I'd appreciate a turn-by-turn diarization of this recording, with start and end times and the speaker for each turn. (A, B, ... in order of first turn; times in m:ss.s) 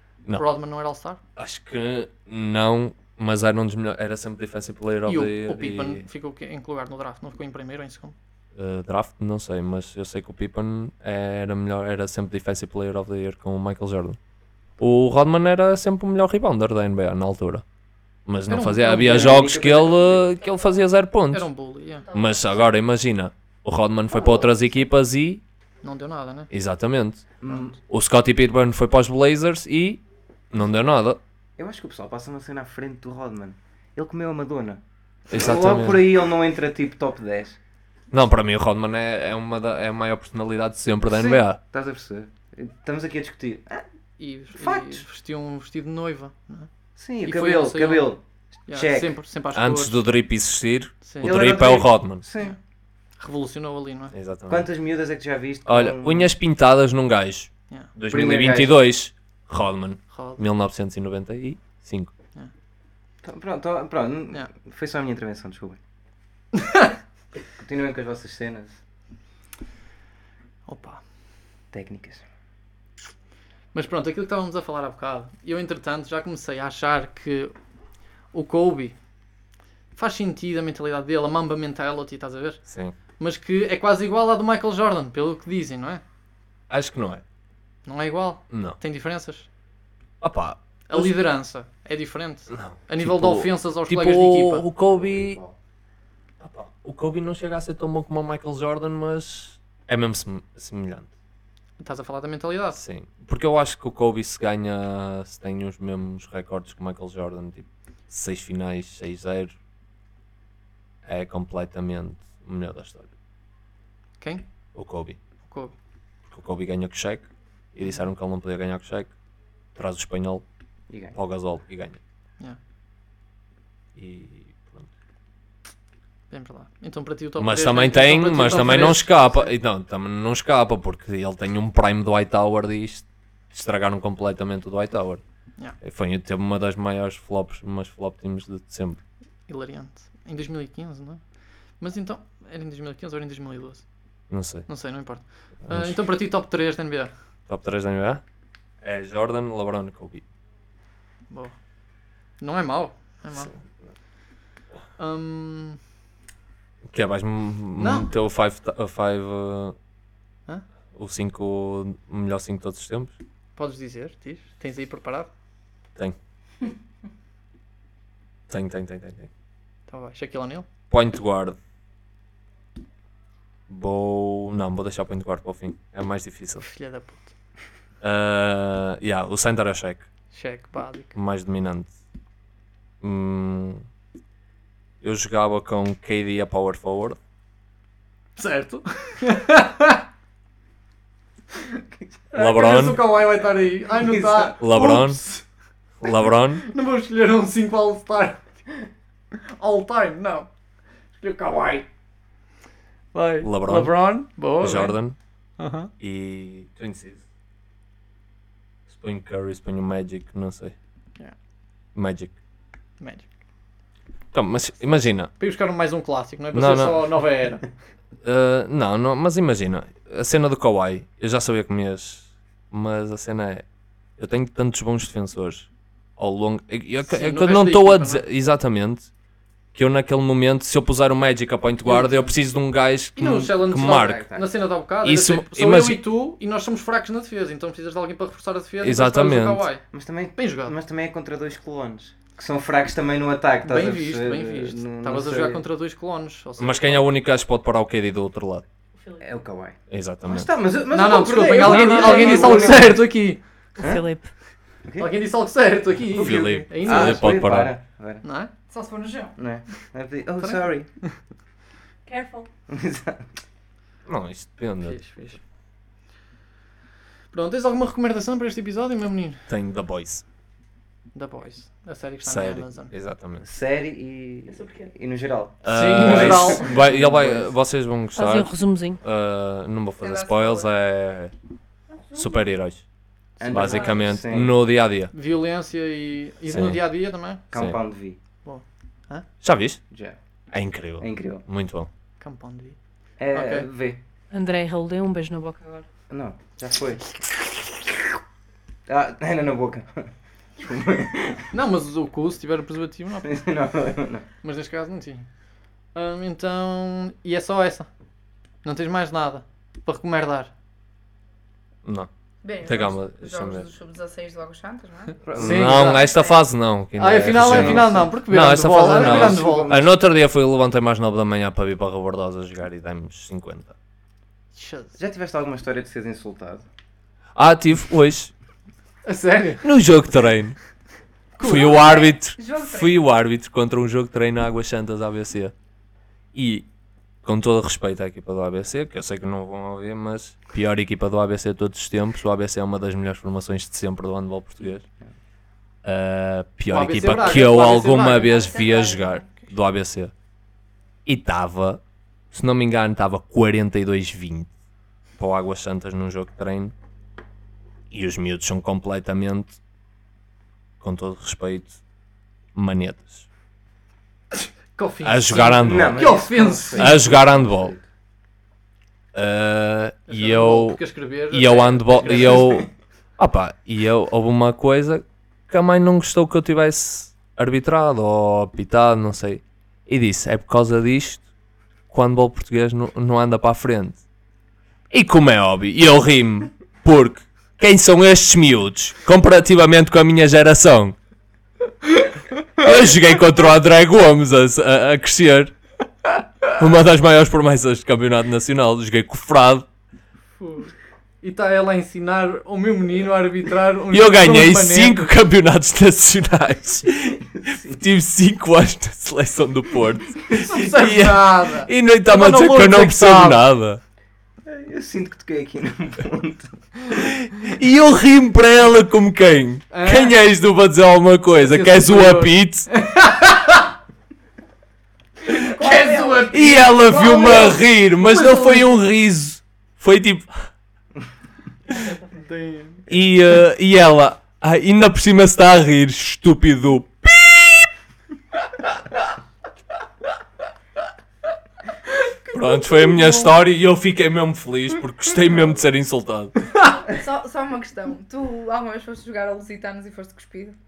0:00.4-0:01.2 A
0:01.4-0:06.0 B
0:05.1-0:08.2 A
0:08.6-0:14.2 B
0:14.8-0:17.6 B
0:18.3-0:21.5 B
0:18.5-0:19.5 A
0:19.0-0:20.3 C
0:21.3-0:22.1 A
0:22.1-0:22.6 D
0:22.1-0:25.4 B
0:25.8-0:26.5 A
0:26.5-0:27.3 B
0:27.4-0:27.8 C
0:27.9-0:31.2 B
0:31.6-0:34.8 C
0:35.3-0:36.0 B
0:35.3-0:37.6 C
0:38.1-0:41.6 B
0:41.1-0:43.9 C
0:44.2-0:46.7 A
0:44.5-0:45.0 C
0:47.0-0:49.2 C
0:47.2-0:48.1 A
0:48.7-0:50.0 A
0:49.6-0:52.2 B
0:51.0-0:51.4 A
0:51.2-0:52.6 C
0:53.2-0:54.1 A
0:54.1-0:54.7 B
0:54.5-0:56.3 C
0:55.7-1:02.1 B
0:58.1-0:58.8 C
1:00.1-1:00.4 A
1:03.2-1:05.8 C
1:06.6-1:06.9 A
1:07.5-1:08.8 C
1:10.7-1:11.0 A
1:11.7-1:12.2 C
1:13.7-1:17.5 A
1:18.3-1:19.0 A
1:19.9-1:22.6 A
1:22.7-1:23.0 B
1:23.2-1:26.0 A
1:26.7-1:27.2 B
1:27.9-1:29.5 A
1:28.5-1:28.8 B
1:30.2-1:31.1 B
1:30.9-1:34.6 A
1:32.5-1:35.4 B
1:34.9-1:35.6 C
1:36.4-1:41.1 B
1:41.8-1:42.8 A
1:42.8-1:49.5 B
1:51.1-1:53.1 B
1:54.2-1:54.4 A
1:54.8-1:55.2 B
1:55.4-1:55.7 A
1:56.3-1:59.1 B
1:59.8-2:00.4 B
2:00.9-2:01.2 C
2:01.1-2:02.0 B
2:04.0-2:04.9 B
2:06.3-2:09.4 A
2:07.4-2:15.2 B
2:15.8-2:19.0 B
2:19.5-2:21.2 A
2:21.8-2:23.8 A
2:24.3-2:24.7 B
2:24.7-2:27.1 A
2:25.7-2:26.0 B
2:27.5-2:28.2 B
2:28.8-2:30.2 B
2:31.3-2:31.6 A
2:32.4-2:33.5 A
2:35.0-2:35.8 A
2:36.9-2:39.8 B
2:37.8-2:38.1 A
2:41.0-2:43.1 B
2:43.6-2:45.3 A
2:48.5-2:49.3 B
2:49.9-2:50.7 A
2:50.9-2:51.6 B
2:53.7-2:56.7 B
2:56.6-2:57.3 A
2:58.0-3:00.1 B
3:00.3-3:01.1 A
3:01.2-3:01.9 B
3:03.0-3:03.8 B
3:05.0-3:07.2 B
3:08.4-3:10.0 A
3:12.3-3:15.4 A
3:12.3-3:13.1 B
3:13.9-3:14.6 C
3:14.6-3:15.2 B
3:16.0-3:16.6 B
3:16.6-3:18.4 A
3:19.6-3:20.5 A
3:21.2-3:21.9 A
3:23.1-3:25.0 A
3:23.4-3:25.2 B
3:25.6-3:25.9 A
3:26.0-3:27.2 B
3:28.9-3:30.7 B
3:32.0-3:32.3 B
3:33.0-3:33.2 A
3:34.3-3:35.3 B
3:35.4-3:37.7 A
3:36.5-3:37.1 B
3:38.2-3:43.6 B
3:44.2-3:49.1 B
3:47.1-3:48.2 A
3:49.7-3:54.3 B
3:51.8-3:52.3 A
3:53.2-3:59.8 A
3:53.8-3:54.5 C
3:55.0-3:56.0 B
3:58.8-3:59.7 B
3:59.9-4:05.6 C
4:00.4-4:00.8 A
4:03.6-4:07.1 A
4:06.6-4:08.6 B
4:09.2-4:13.0 C
4:09.9-4:10.5 B
4:10.9-4:13.4 A
4:11.6-4:12.7 E
4:13.8-4:14.3 E
4:13.8-4:14.0 C
4:14.9-4:15.1 C
4:15.0-4:17.4 A
4:16.1-4:18.2 C
4:16.2-4:17.7 B
4:18.2-4:18.5 A
4:18.7-4:19.4 D
4:19.4-4:20.9 C
4:20.4-4:21.2 A
4:22.1-4:22.5 E
4:22.7-4:23.3 C
4:24.1-4:25.1 B
4:24.8-4:25.4 A
4:27.3-4:29.4 A
4:29.5-4:30.2 B
4:31.2-4:32.9 A
4:32.2-4:33.4 B
4:33.4-4:37.5 C
4:34.6-4:34.9 E
4:35.6-4:41.3 B
4:35.7-4:36.7 A
4:38.2-4:39.0 E
4:40.0-4:40.7 D
4:42.1-4:42.8 B
4:43.4-4:44.6 C
4:43.5-4:45.1 B
4:45.1-4:47.4 A
4:46.5-4:46.8 B
4:47.5-4:48.2 C
4:48.4-4:49.3 A
4:49.4-4:49.8 B
4:49.9-4:50.2 C
4:50.5-4:51.9 B
4:51.0-4:51.4 C
4:52.2-4:52.8 A
4:53.2-4:54.0 C
4:53.3-4:53.7 A
4:54.3-4:55.8 E
4:56.1-4:57.1 C
4:58.9-5:01.5 C
5:01.5-5:03.3 A
5:03.2-5:04.3 C
5:04.4-5:05.3 A
5:05.9-5:07.9 A
5:08.6-5:10.5 A
5:12.4-5:15.2 D
5:12.6-5:13.7 B
5:15.2-5:16.0 C
5:15.4-5:16.1 A
5:15.4-5:23.7 B
5:16.0-5:16.4 D
5:17.0-5:19.7 A
5:17.2-5:18.1 C
5:18.8-5:19.9 C
5:24.6-5:24.9 A
5:25.0-5:26.6 C
5:27.4-5:28.3 B
5:29.0-5:29.7 A
5:29.6-5:30.6 B
5:31.4-5:31.9 A
5:31.4-5:35.5 B
5:31.6-5:33.0 D
5:36.3-5:36.7 B
5:37.2-5:44.8 B
5:45.8-5:50.1 B
5:46.7-5:48.5 A
5:48.1-5:49.4 D
5:51.1-5:51.8 B
5:52.3-5:54.5 B
5:55.2-5:56.7 B
5:57.9-5:59.6 B
6:00.8-6:01.8 B
6:02.6-6:03.3 B
6:04.4-6:07.1 A
6:05.0-6:07.7 B
6:05.6-6:07.8 C
6:09.1-6:21.2 B
6:10.1-6:12.5 A
6:12.0-6:12.7 C
6:21.9-6:24.0 B
6:24.9-6:31.0 B
6:32.6-6:35.6 B
6:36.5-6:39.7 B
6:40.4-6:45.1 A
6:43.9-6:53.8 B
6:47.4-6:47.8 C
6:50.3-6:53.4 A
6:54.4-6:56.6 C
6:56.9-7:02.7 B
6:59.7-7:00.2 A
7:01.4-7:03.7 A
7:05.3-7:08.8 A
7:05.3-7:05.6 B
7:05.5-7:07.6 D
7:06.3-7:10.3 B
7:12.1-7:12.9 A
7:12.9-7:17.7 B
7:21.9-7:23.3 A
7:22.3-7:26.5 B
7:26.6-7:30.6 D